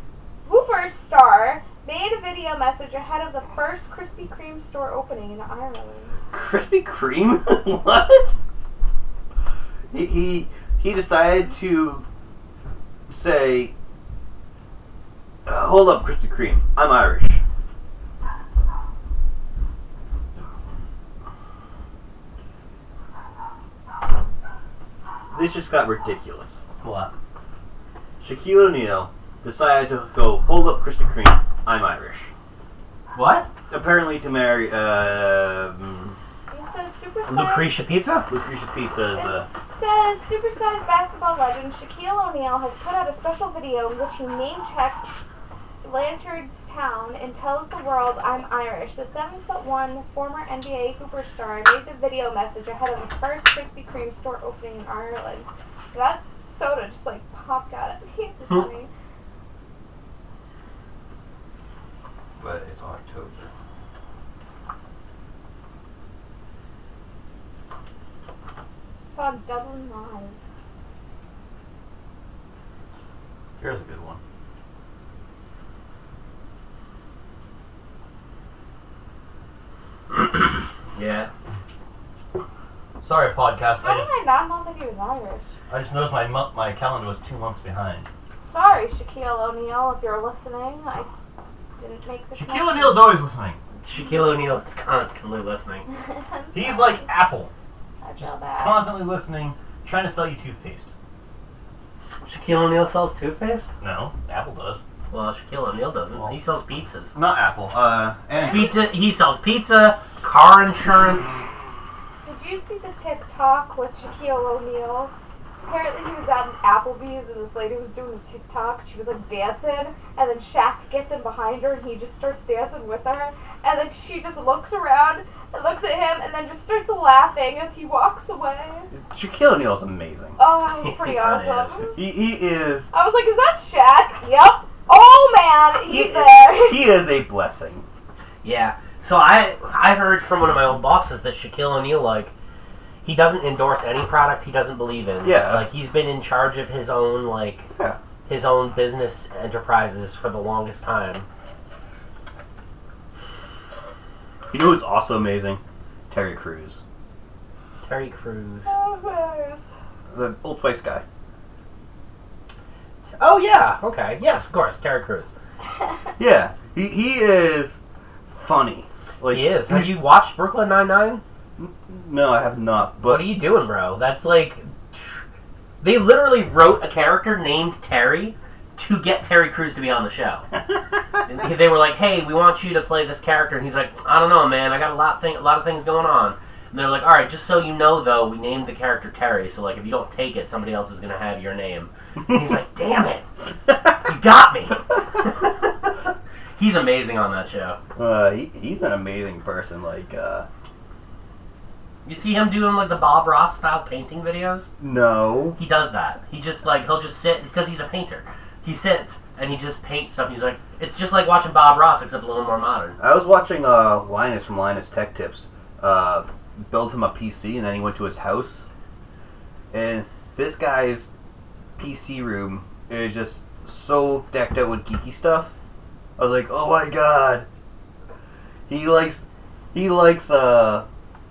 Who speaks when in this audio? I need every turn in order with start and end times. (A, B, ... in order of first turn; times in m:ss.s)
0:00.4-0:06.1 A
0:06.3-0:08.3 B
0:09.9-0:12.0 B
0:13.1-0:13.7 B
0:15.5-0:17.4 B
0:25.3-0:26.6 B
0:26.8-0:27.1 C
0:28.2-0:32.3 B
0:33.1-0:33.5 C
0:33.7-0:36.2 B
0:36.5-0:37.7 A
0:37.3-0:38.3 C
0:38.3-0:39.5 B
0:39.1-0:45.1 A
0:45.8-0:58.9 A
1:02.4-1:03.5 B
1:09.1-1:10.4 A
1:13.6-1:14.2 B
1:20.1-1:21.3 C
1:23.0-1:24.1 B
1:23.8-1:25.4 A
1:25.7-1:28.1 B
1:28.4-1:31.1 A
1:31.8-1:33.2 A
1:32.3-1:33.6 B
1:33.8-1:35.9 C
1:36.5-1:37.5 B
1:38.0-1:38.9 A
1:38.2-1:40.9 B
1:42.3-1:43.7 C
1:43.8-1:44.8 B
1:45.1-1:47.1 C
1:47.1-1:48.8 B
1:48.4-1:51.5 C
1:52.2-1:55.1 A
1:55.6-2:08.9 A
2:08.9-2:10.4 B
2:10.4-2:12.0 A
2:10.8-2:11.9 C
2:12.0-2:12.9 B
2:12.9-2:16.9 A
2:15.8-2:17.8 B
2:18.4-2:22.3 C
2:23.0-2:27.7 C
2:25.2-2:25.7 B
2:28.3-2:31.3 C
2:34.5-2:36.8 B
2:37.8-2:38.7 C
2:38.6-2:39.6 A
2:40.1-2:41.0 B
2:43.0-2:45.3 C
2:46.2-2:47.8 B
2:48.3-2:50.0 B
2:49.3-2:51.2 C
2:51.6-2:53.4 B
2:53.0-2:55.2 C
2:55.8-3:00.5 C
3:01.3-3:13.3 C
3:14.0-3:15.7 C
3:16.6-3:17.8 C
3:18.0-3:20.5 B
3:22.0-3:24.7 C
3:24.8-3:25.6 B
3:25.6-3:33.0 C
3:33.0-3:38.6 B
3:39.7-3:41.1 B
3:41.8-3:45.5 B
3:46.2-3:47.5 B
3:48.7-3:49.2 B
3:49.7-3:50.8 B